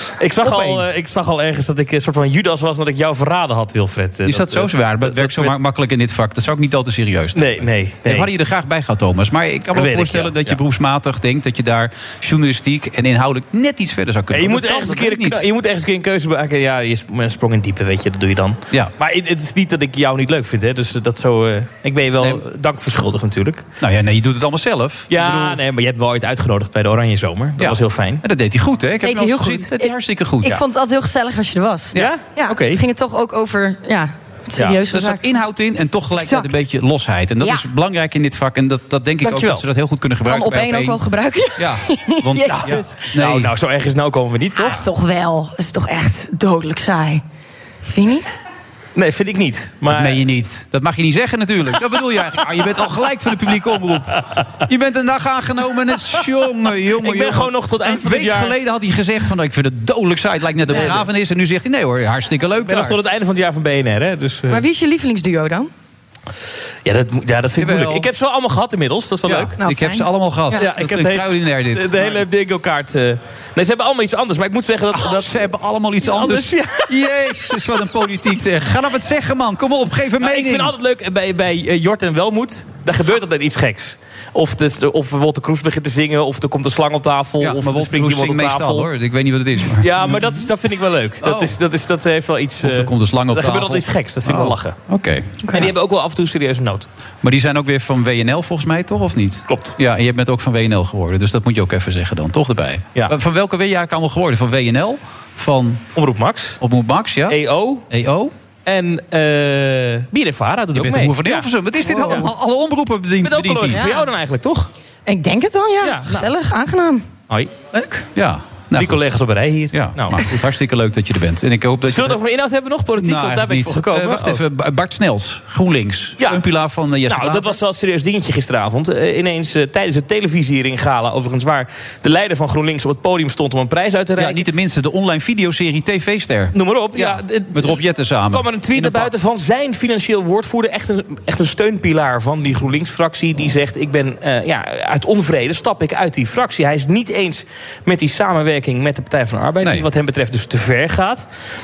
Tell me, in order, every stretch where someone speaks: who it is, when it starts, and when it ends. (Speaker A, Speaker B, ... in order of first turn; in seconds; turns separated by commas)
Speaker A: 0.2-5.5, Speaker B: 0.4-0.9, Speaker B: 4.2-15.4, Speaker A: 7.3-8.3, Speaker A: 9.7-10.6, Speaker A: 14.3-23.7, Speaker B: 23.8-25.6, Speaker A: 25.1-28.2, Speaker B: 27.6-30.6, Speaker C: 29.0-35.4, Speaker A: 31.9-32.8, Speaker B: 34.9-41.0, Speaker C: 36.2-36.6, Speaker C: 39.2-39.6, Speaker C: 40.3-43.0, Speaker B: 41.6-43.5, Speaker A: 42.5-44.8, Speaker C: 44.6-47.2, Speaker C: 47.8-48.3, Speaker A: 49.0-50.2, Speaker B: 49.9-63.0, Speaker A: 57.0-58.6, Speaker A: 60.7-61.1, Speaker A: 62.6-64.6, Speaker C: 64.5-65.7, Speaker A: 66.8-69.6, Speaker B: 67.6-68.1, Speaker B: 69.3-72.2, Speaker C: 69.6-70.7, Speaker A: 70.6-75.5, Speaker B: 74.9-80.7, Speaker A: 76.0-77.7, Speaker A: 80.2-88.9, Speaker B: 87.4-90.5, Speaker A: 89.8-94.8, Speaker B: 91.2-91.6, Speaker B: 92.6-95.7, Speaker A: 95.5-96.9, Speaker B: 97.2-105.9, Speaker A: 99.5-99.8, Speaker A: 106.0-106.6, Speaker B: 106.6-108.3, Speaker A: 107.3-107.9, Speaker A: 108.7-112.3, Speaker B: 110.7-113.9, Speaker C: 112.0-112.3, Speaker A: 113.2-114.7, Speaker C: 113.7-114.1, Speaker C: 115.1-117.1, Speaker A: 115.8-116.3, Speaker C: 117.7-118.1, Speaker B: 118.2-119.2, Speaker A: 118.7-120.3, Speaker B: 119.7-122.2, Speaker A: 121.9-124.4, Speaker B: 123.0-127.6, Speaker A: 126.2-126.4, Speaker A: 127.1-134.5, Speaker B: 134.2-139.1, Speaker A: 136.5-151.3, Speaker B: 149.6-149.9